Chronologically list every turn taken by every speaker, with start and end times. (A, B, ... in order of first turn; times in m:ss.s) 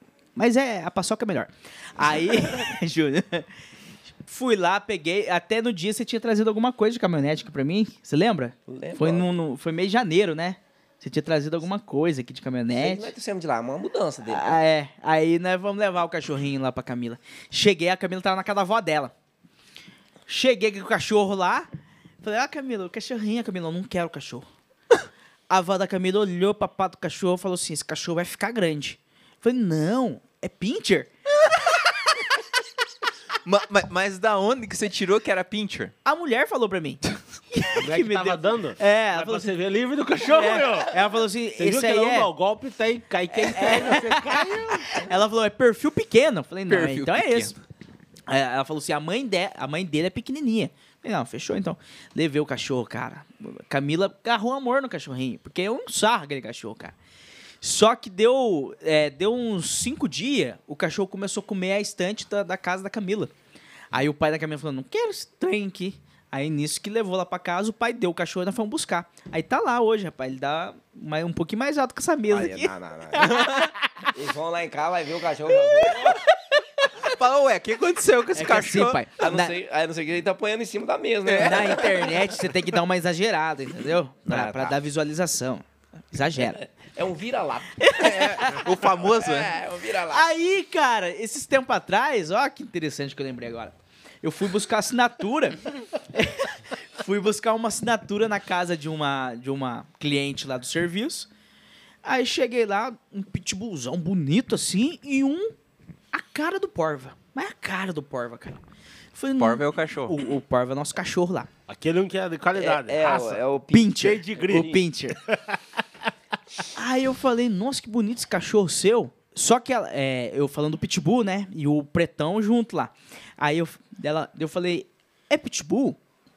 0:00.4-0:03.5 A
0:04.2-0:13.1 A
0:08.7-0:09.3 B
0:12.7-0:14.6 B
0:14.3-0:19.1 A
0:20.3-0:21.7 A
0:22.2-0:24.5 A
0:25.5-0:31.1 A
0:33.4-0:35.9 C
0:36.0-0:39.5 A
0:37.8-0:45.0 D
0:40.2-0:42.3 A
0:43.4-0:47.6 A
0:46.7-0:47.6 C
0:48.3-0:56.9 A
0:57.6-1:03.3 A
1:03.9-1:14.1 A
1:12.3-1:13.4 B
1:13.2-1:13.7 C
1:14.1-1:16.3 B
1:17.0-1:19.1 C
1:18.3-1:19.6 A
1:19.2-1:22.3 B
1:21.3-1:26.6 A
1:21.3-1:21.6 C
1:24.3-1:24.8 B
1:26.4-1:30.3 B
1:27.8-1:28.6 A
1:28.0-1:29.6 C
1:30.1-1:41.3 A
1:42.0-1:45.5 A
1:46.1-1:48.6 A
1:49.1-1:51.5 A
1:49.4-1:50.2 C
1:51.7-1:53.4 D
1:52.6-1:54.8 B
1:53.7-1:55.2 A
1:54.0-1:55.6 D
1:56.8-2:06.0 A